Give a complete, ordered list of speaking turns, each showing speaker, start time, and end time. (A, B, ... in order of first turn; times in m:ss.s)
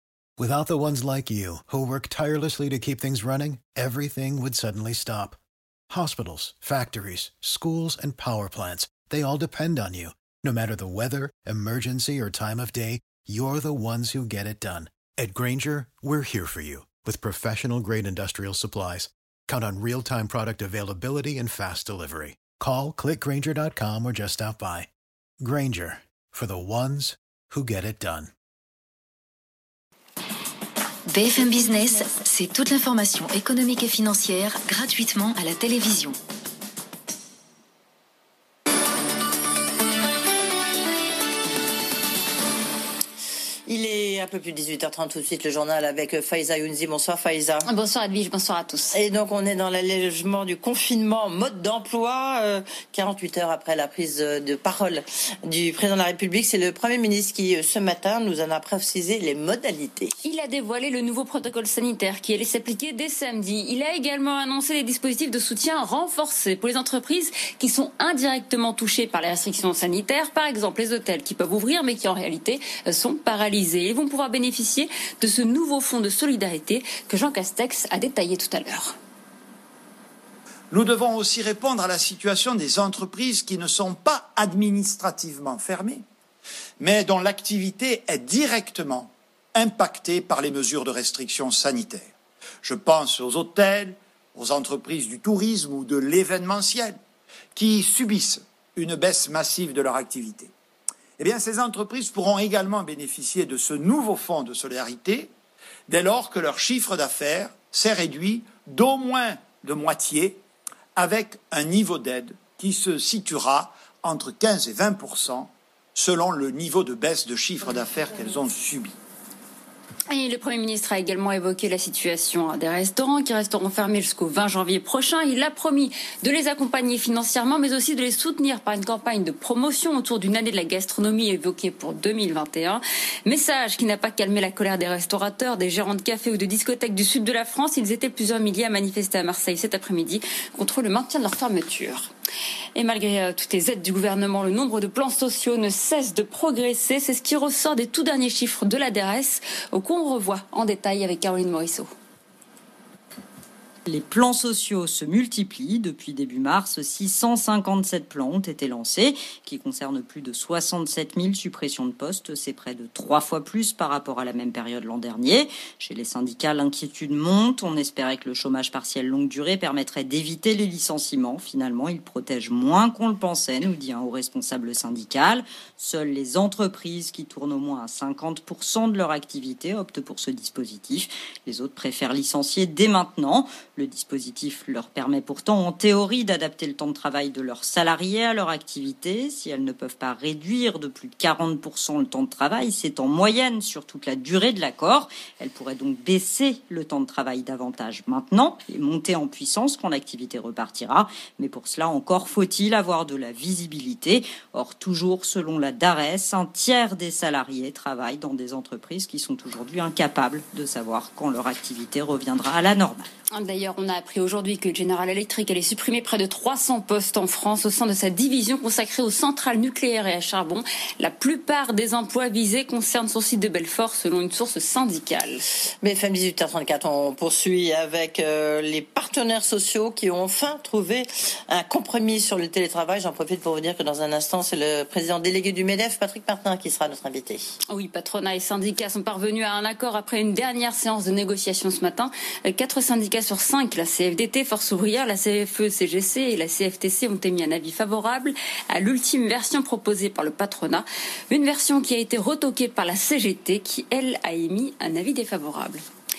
0:00.4-0:05.4 A
0:05.9-0:24.9 A
0:25.4-0:28.3 A
0:31.1-0:36.1 B
0:43.7-0:47.7 C
0:47.7-0:49.0 D
0:48.9-1:00.1 C
1:00.2-1:19.0 D
1:20.7-1:26.0 E
1:26.8-1:32.1 E
1:32.6-1:37.0 E
1:37.6-1:40.5 E
1:41.2-1:45.3 E
1:45.9-1:50.4 E
1:51.0-1:59.0 E
2:00.1-2:22.1 D
2:22.8-2:31.9 D
2:33.9-3:33.1 F
3:33.3-3:45.4 D
3:45.8-3:57.4 C
3:57.7-4:15.8 D